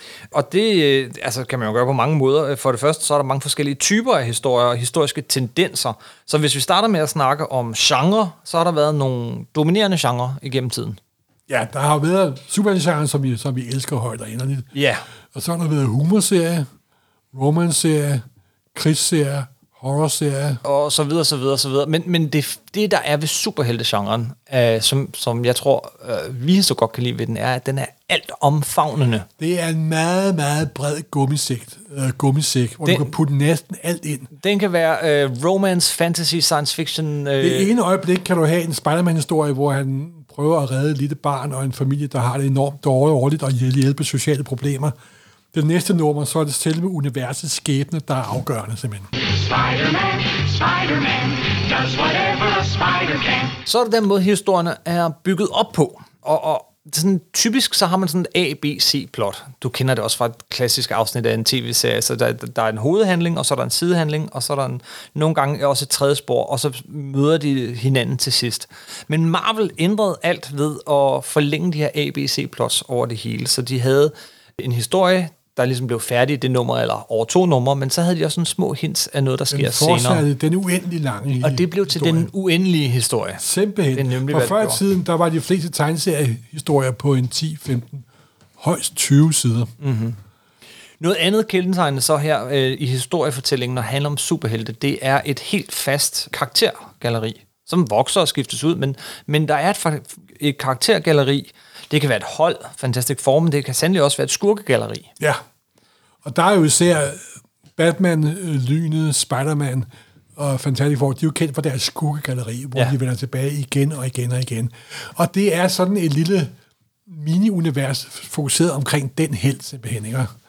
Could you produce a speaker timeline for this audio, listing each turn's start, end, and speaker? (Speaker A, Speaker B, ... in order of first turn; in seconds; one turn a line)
Speaker A: 0.3-11.0
Speaker B: 11.5-14.7
Speaker A: 14.7-15.0
Speaker B: 15.3-16.7
Speaker B: 17.3-18.2
Speaker B: 18.7-20.6
Speaker A: 20.6-29.3
Speaker B: 29.4-34.3
Speaker A: 32.8-33.1
Speaker A: 34.3-37.7
Speaker B: 37.4-44.9
Speaker B: 45.5-49.1
Speaker C: 49.2-53.5
Speaker A: 53.6-80.2
Speaker B: 79.5-82.3
Speaker A: 81.4-83.4
Speaker B: 83.4-88.0
Speaker A: 83.9-84.8
Speaker B: 88.6-89.7
Speaker A: 89.8-90.2
Speaker A: 91.0-105.1
Speaker B: 106.2-107.2
Speaker B: 107.8-116.5
Speaker B: 117.1-120.3